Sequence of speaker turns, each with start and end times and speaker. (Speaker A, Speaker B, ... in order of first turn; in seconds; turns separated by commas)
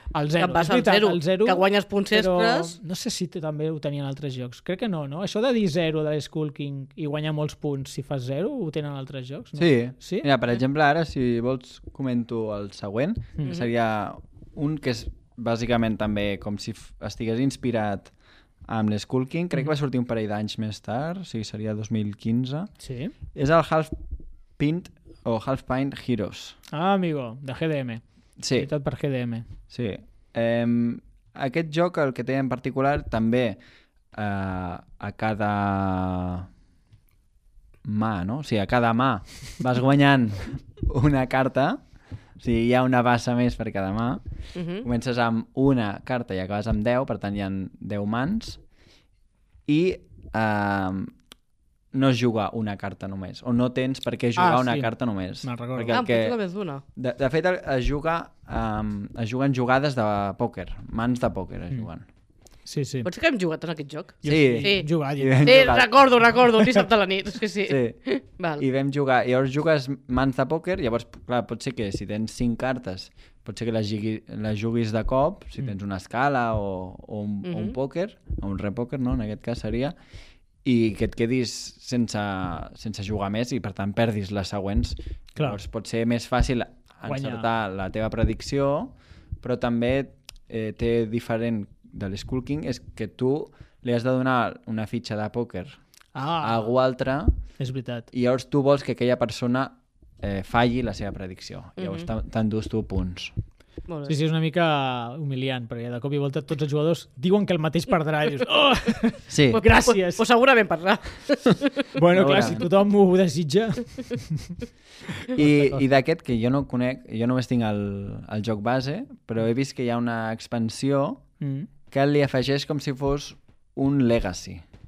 Speaker A: 0.1-10.3, Speaker B: 0.4-2.8, Speaker C: 9.6-18.1, Speaker C: 18.7-22.7, Speaker A: 22.8-23.1, Speaker C: 23.4-23.9, Speaker C: 24.6-26.6, Speaker A: 26.7-28.0, Speaker C: 28.4-28.7, Speaker A: 28.6-29.5, Speaker C: 29.7-33.6, Speaker C: 34.1-36.5, Speaker C: 37.9-41.8, Speaker C: 42.4-44.2, Speaker B: 44.5-44.9, Speaker C: 44.8-48.6, Speaker C: 49.7-51.1, Speaker C: 51.9-56.4, Speaker A: 54.4-56.0, Speaker B: 55.9-56.8, Speaker C: 57.0-62.1, Speaker A: 62.7-63.1, Speaker B: 63.0-68.6, Speaker A: 64.2-65.8, Speaker C: 64.3-65.9, Speaker C: 67.7-68.0, Speaker C: 68.6-79.9, Speaker B: 77.4-77.8, Speaker C: 80.7-95.8, Speaker A: 87.1-87.5, Speaker A: 96.2-96.7, Speaker C: 96.4-97.4, Speaker A: 97.6-98.1, Speaker C: 98.1-103.3, Speaker B: 101.8-102.1, Speaker B: 103.9-104.1, Speaker A: 104.1-110.2, Speaker C: 109.3-109.6, Speaker B: 109.5-111.9, Speaker A: 111.9-114.6, Speaker C: 112.1-112.7, Speaker A: 115.2-115.8, Speaker C: 115.3-121.2, Speaker A: 121.4-121.7, Speaker C: 121.9-124.6